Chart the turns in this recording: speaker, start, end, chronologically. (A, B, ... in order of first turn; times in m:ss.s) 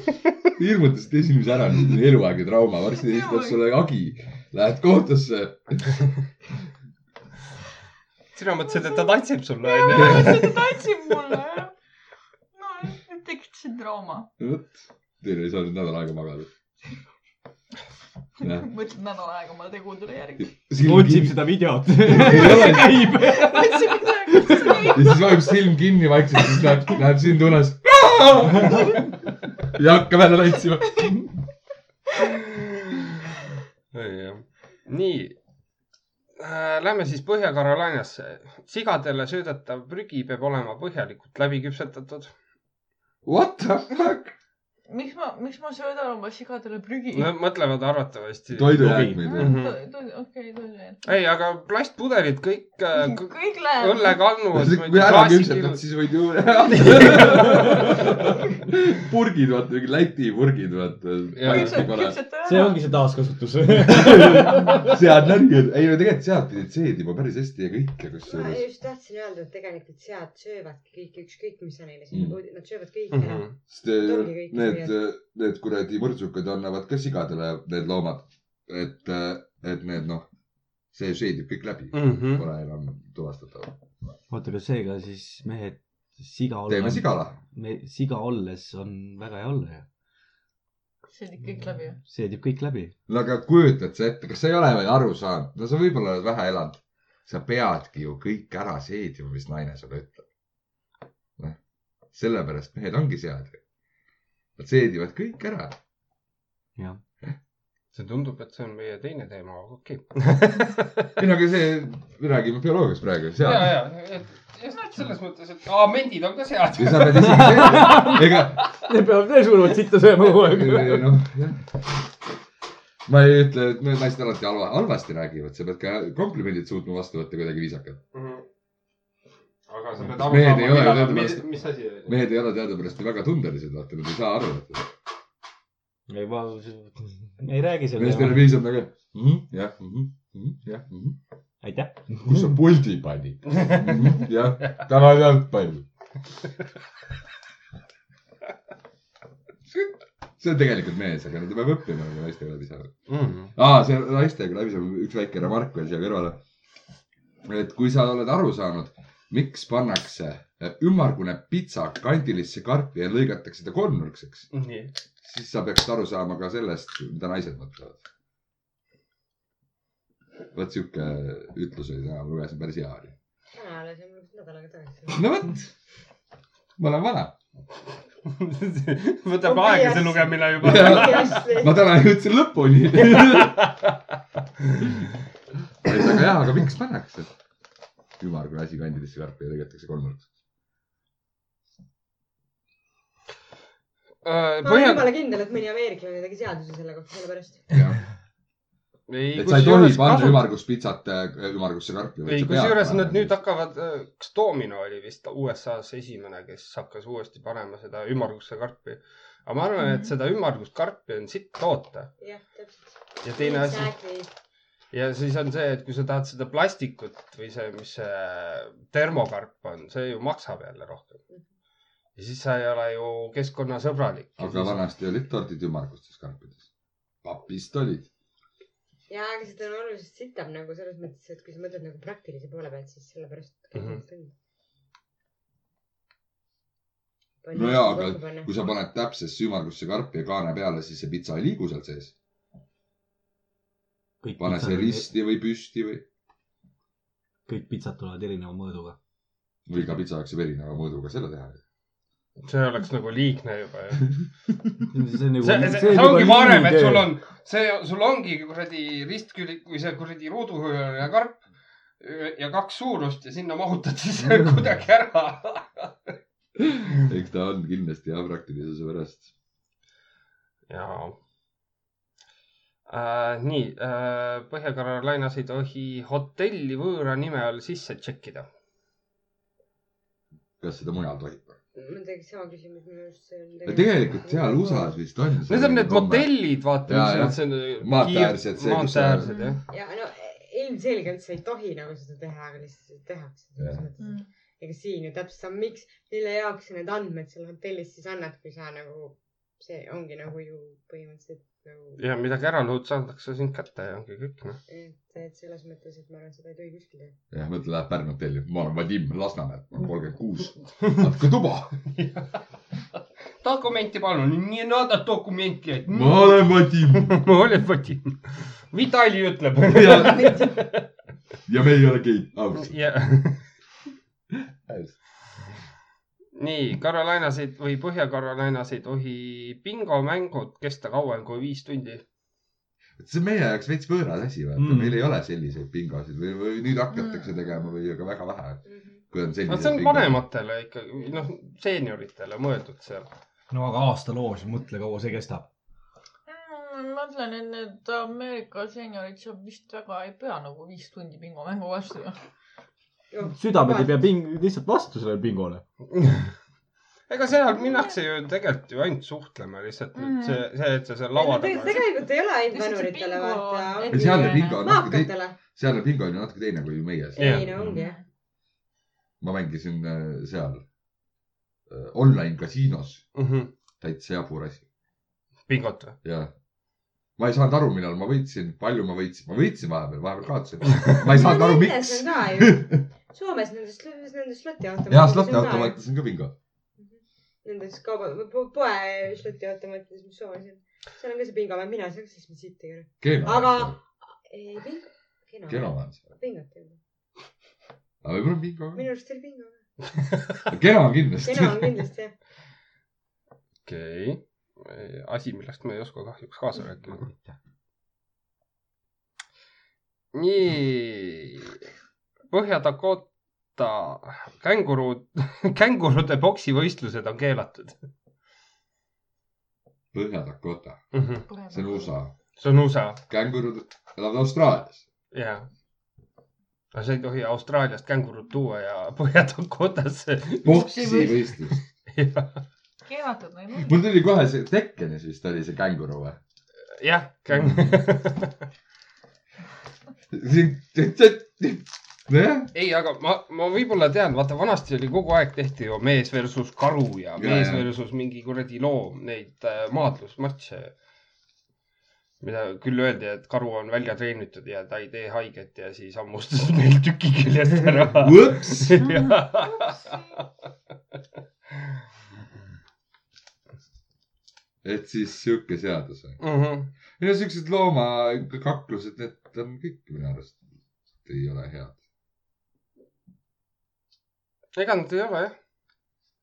0:00.6-0:06.0 A
0:03.0-0:03.6 B
0:08.3-0:10.5 C
0:09.6-0:11.7 B
0:09.9-0:10.6 A
0:12.5-0:14.3 B
0:14.4-0:16.5 A
0:18.4-0:18.7 A
0:18.4-0:20.5 B
0:20.4-0:23.1 A
0:20.8-0:25.0 D
0:22.2-0:25.5 B
0:24.8-0:31.4 A
0:33.9-0:35.4 C
0:36.4-0:42.3 C
0:43.2-0:44.3 A
0:44.9-0:47.3 B
0:47.1-0:49.8 C
0:48.5-0:49.6 A
0:48.8-0:49.2 D
0:49.2-0:51.0 B
0:51.0-0:55.8 C
0:52.9-0:54.2 B
0:54.5-1:02.2 A
0:56.7-0:57.9 C
1:01.3-1:01.9 C
1:01.4-1:02.9 B
1:02.4-1:04.9 D
1:03.9-1:08.6 A
1:08.3-1:14.9 E
1:12.1-1:12.4 A
1:13.1-1:13.5 C
1:13.7-1:20.3 A
1:20.9-1:23.8 A
1:21.9-1:22.4 C
1:24.3-1:29.9 D
1:26.7-1:27.4 A
1:31.1-1:32.0 B
1:32.0-1:32.9 D
1:33.1-1:40.2 A
1:42.1-1:43.6 A
1:44.6-1:45.8 A
1:47.9-1:50.9 C
1:51.2-1:53.8 A
1:53.4-1:58.1 C
1:56.8-1:58.6 A
1:57.1-2:01.1 D
2:00.4-2:02.0 A
2:03.0-2:08.0 A
2:08.1-2:08.4 C
2:09.7-2:12.2 C
2:10.0-2:11.5 A
2:12.0-2:14.9 A
2:16.1-2:18.5 D
2:18.0-2:21.2 A
2:21.6-2:22.5 D
2:22.2-2:25.8 A
2:23.6-2:23.8 C
2:29.7-2:36.4 A
2:33.1-2:33.5 C
2:37.4-2:44.5 A
2:44.5-2:45.0 C
2:45.2-2:48.0 A
2:50.5-2:53.1 A
2:53.5-2:55.2 E
2:55.1-2:55.7 A
2:56.8-2:57.4 A
2:58.2-3:01.4 C
2:59.4-3:01.8 E
3:00.6-3:03.6 A
3:03.0-3:03.9 C
3:05.8-3:07.3 A
3:08.2-3:10.2 A
3:14.2-3:15.1 C
3:14.6-3:17.6 E
3:17.7-3:18.0 A
3:19.1-3:20.5 C
3:19.3-3:23.4 A
3:22.2-3:32.1 C
3:29.8-3:30.1 B
3:32.2-3:34.3 E
3:33.2-3:33.9 C
3:34.9-3:41.2 C
3:42.2-3:44.8 C
3:44.4-3:46.6 A
3:47.2-3:48.1 A
3:49.1-3:54.3 E
3:53.7-3:54.0 C
3:57.4-3:58.5 E
3:57.5-4:02.1 A
4:04.2-4:05.1 D
4:04.4-4:06.0 A
4:07.5-4:09.0 D
4:09.7-4:11.6 A
4:12.4-4:14.2 C
4:14.9-4:17.1 D
4:15.4-4:21.4 C
4:22.0-4:26.1 C
4:26.6-4:29.3 A
4:30.7-4:31.2 C
4:32.9-4:38.5 C
4:40.6-4:41.6 A
4:41.7-4:45.0 E
4:43.6-4:49.3 A
4:45.5-4:49.6 C
4:49.2-4:49.6 B
4:49.7-5:02.0 E
4:53.6-4:53.8 A
4:54.0-4:54.3 B
5:02.0-5:04.6 C
5:04.7-5:07.1 E
5:07.3-5:11.7 A
5:11.9-5:12.3 C
5:13.4-5:20.8 C
5:15.9-5:17.2 A
5:19.7-5:20.3 A
5:20.1-5:20.5 E
5:21.4-5:22.8 A
5:22.5-5:23.5 C
5:24.6-5:25.0 A
5:26.4-5:32.0 C
5:33.0-5:40.2 A
5:34.6-5:35.0 D
5:38.7-5:39.0 E
5:39.5-5:43.1 C
5:43.5-5:45.5 D
5:46.3-5:52.2 B
5:53.1-5:54.0 E
5:53.4-5:55.6 D
5:55.9-5:56.3 C
5:57.1-6:01.8 C
5:57.6-5:57.9 B
6:00.0-6:00.4 B
6:01.1-6:05.4 E
6:01.6-6:04.6 B
6:03.9-6:07.7 A
6:07.1-6:08.0 E
6:07.2-6:07.5 C
6:07.6-6:08.0 B
6:09.2-6:10.6 A
6:11.7-6:13.1 A
6:13.1-6:13.5 C
6:13.8-6:14.6 A
6:15.5-6:16.0 C
6:16.0-6:16.3 A
6:17.2-6:22.8 A
6:20.7-6:21.0 C
6:21.0-6:25.8 E
6:24.9-6:26.3 A
6:26.8-6:36.8 E
6:33.0-6:33.8 A
6:35.5-6:36.0 A
6:38.0-6:38.8 A
6:38.7-6:39.6 E
6:40.5-6:41.7 A
6:41.2-6:42.1 E
6:43.6-6:47.1 C
6:46.9-6:47.3 D
6:50.1-6:51.6 C
6:52.3-6:57.8 C
6:59.9-7:00.8 A
7:00.9-7:01.2 C
7:01.3-7:01.9 B
7:01.5-7:02.1 A
7:02.4-7:03.0 C
7:03.1-7:04.8 A
7:05.1-7:05.4 C
7:06.7-7:10.6 C
7:10.4-7:11.2 B
7:10.4-7:11.6 A
7:11.5-7:12.3 C
7:12.8-7:13.7 B
7:13.6-7:16.2 A
7:16.7-7:18.3 C
7:20.1-7:22.5 A
7:22.5-7:30.7 C
7:27.2-7:27.6 A
7:32.2-7:39.9 C
7:37.9-7:38.8 A
7:44.6-7:46.2 A
7:46.2-7:46.7 C
7:47.0-7:50.4 A
7:51.0-7:51.8 A
7:54.5-7:55.3 C